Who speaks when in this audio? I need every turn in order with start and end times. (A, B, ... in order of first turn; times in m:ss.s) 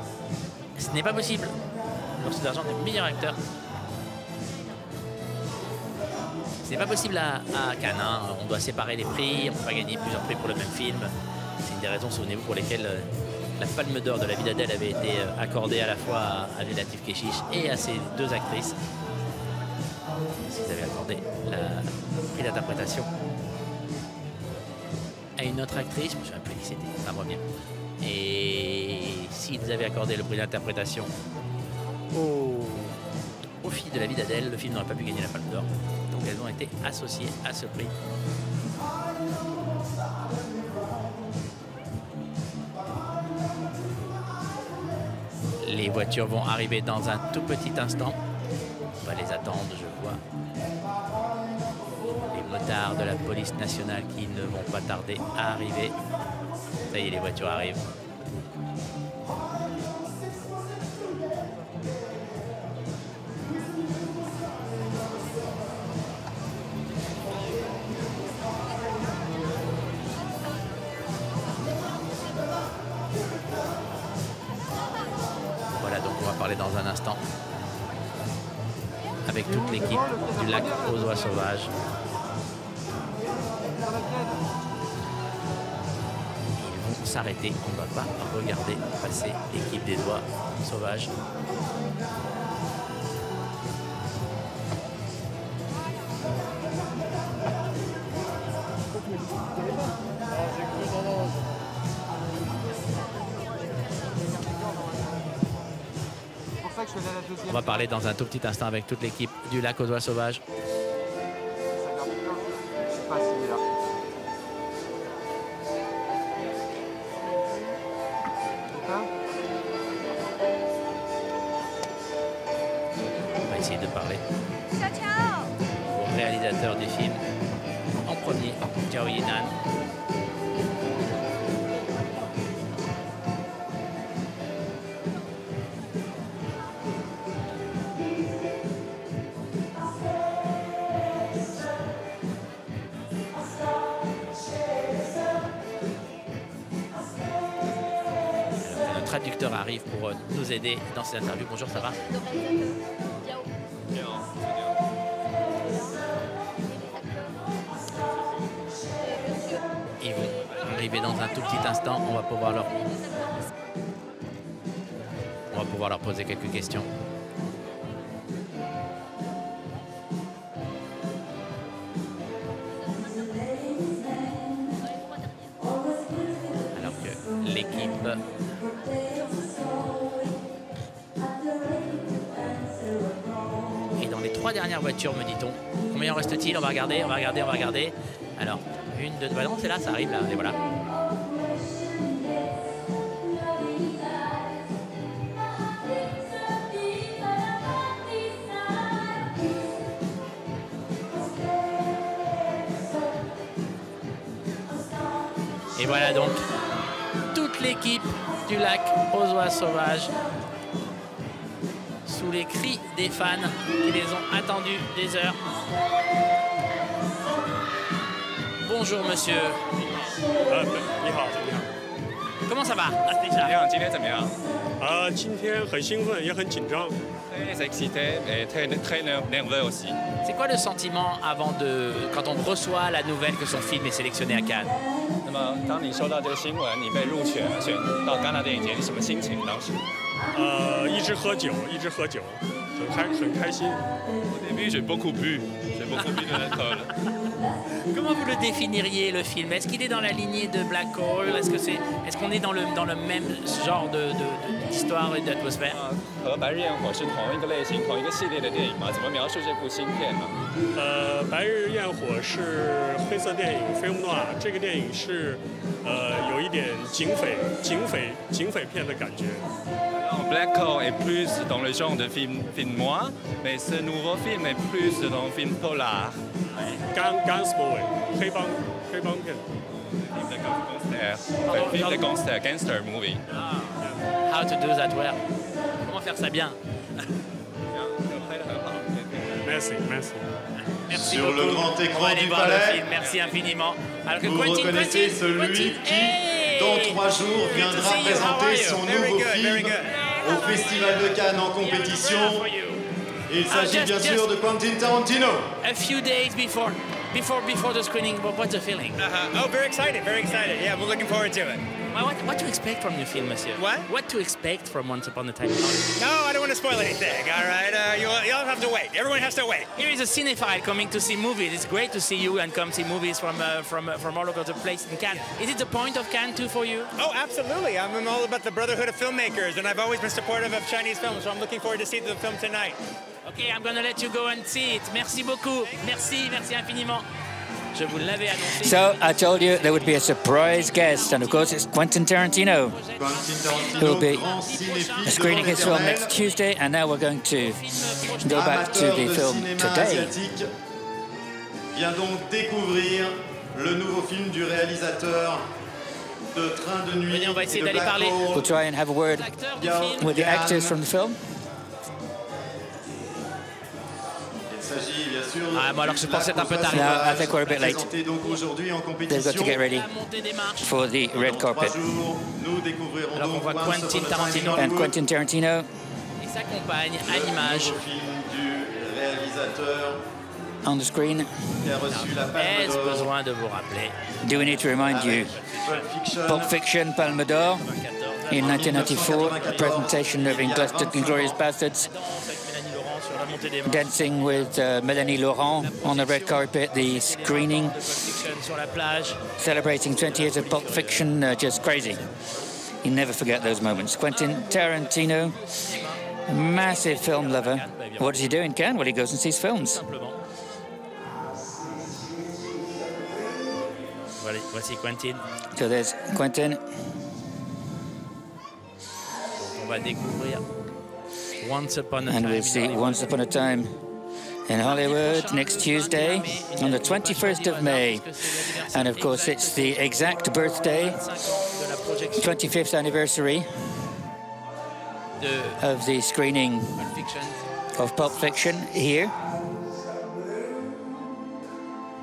0:00.8-0:01.5 A
0:02.1-0:03.4 A
0:06.6-0:11.1 A
0:11.6-0:18.8 A
0:20.4-0:23.1 A
0:25.4-0:27.4 A
0:28.0-0:31.1 A
0:32.1-0:33.0 A
0:33.6-0:37.9 A
0:45.6-0:48.2 A
0:49.0-0:50.2 A
0:52.2-0:56.0 A
0:56.9-0:57.8 A
1:15.7-1:17.2 A
1:19.2-1:21.7 A
1:26.5-1:31.1 A
1:47.4-1:50.4 A
2:03.5-2:04.2 A
2:05.9-2:07.2 A
2:08.0-2:09.5 A
2:28.6-2:32.1 A
2:33.9-2:34.7 B
2:40.0-2:42.8 A
2:45.5-2:46.9 A
2:56.7-2:58.2 A
3:04.0-3:10.6 A
3:25.8-3:26.4 A
3:27.3-3:30.1 A
3:32.0-3:35.4 A
3:38.6-3:39.6 A
3:40.5-3:41.7 C
3:42.5-3:43.5 A
3:43.4-3:44.4 B
3:44.8-3:47.0 C
3:47.3-3:50.0 B
3:50.2-3:54.7 A
3:55.2-3:59.7 B
4:00.3-4:03.8 C
4:04.3-4:06.9 B
4:06.0-4:06.6 A
4:07.9-4:15.8 A
4:15.7-4:20.3 B
4:20.8-4:29.5 C
4:30.0-4:36.2 B
4:36.6-4:36.8 A
4:36.9-4:39.4 C
4:39.8-4:43.2 B
4:41.4-4:42.0 A
4:43.3-4:45.2 A
4:45.8-4:47.1 A
4:47.7-4:49.5 B
4:49.4-4:50.2 C
4:50.5-4:58.8 A
4:50.9-4:52.8 D
4:53.0-4:53.4 B
4:54.2-5:02.4 D
4:58.6-4:59.9 E
4:59.8-5:02.8 A
5:03.3-5:05.5 D
5:03.5-5:04.3 A
5:05.6-5:09.0 A
5:09.0-5:11.6 E
5:11.9-5:15.9 A
5:13.6-5:13.9 E
5:16.0-5:19.7 E
5:19.8-5:26.9 A
5:27.0-5:32.8 E
5:33.2-5:37.0 A
5:37.7-5:41.7 A
5:38.4-5:42.8 F
5:42.6-5:46.4 A
5:43.0-5:46.1 D
5:43.8-5:44.2 F
5:45.0-5:50.2 F
5:47.4-5:48.6 A
5:48.2-5:50.5 D
5:51.7-5:55.5 D
5:56.3-5:58.5 D
5:57.1-5:58.2 A
5:58.3-5:59.3 F
5:59.1-6:00.2 A
5:59.5-6:00.8 D
6:00.0-6:01.2 F
6:04.5-6:09.6 D
6:05.5-6:08.4 A
6:06.7-6:07.8 F
6:09.1-6:09.9 F
6:09.5-6:11.0 A
6:10.6-6:11.8 F
6:11.1-6:14.9 D
6:13.1-6:14.7 A
6:14.5-6:15.7 F
6:16.2-6:17.8 A
6:17.1-6:20.0 D
6:20.6-6:21.5 F
6:21.6-6:23.1 D
6:21.9-6:25.9 A
6:24.2-6:25.3 F
6:24.8-6:26.5 D
6:26.2-6:27.6 F
6:27.2-6:29.8 A
6:28.3-6:31.9 F
6:28.3-6:31.4 D
6:31.8-6:34.6 A
6:33.6-6:37.8 F
6:35.6-6:39.3 A
6:39.4-6:42.0 F
6:39.9-6:42.6 A
6:42.8-6:45.4 F
6:43.2-6:48.6 A
6:46.3-6:49.8 F
6:49.6-6:50.2 A
6:54.2-6:55.2 A
6:55.5-6:56.6 F
6:59.4-7:00.4 A
7:01.4-7:03.1 A
7:02.0-7:03.8 F
7:04.5-7:11.0 F
7:04.6-7:12.4 A
7:12.2-7:13.9 F
7:15.2-7:15.7 A
7:15.6-7:16.9 F
7:16.8-7:17.5 A
7:17.7-7:19.1 F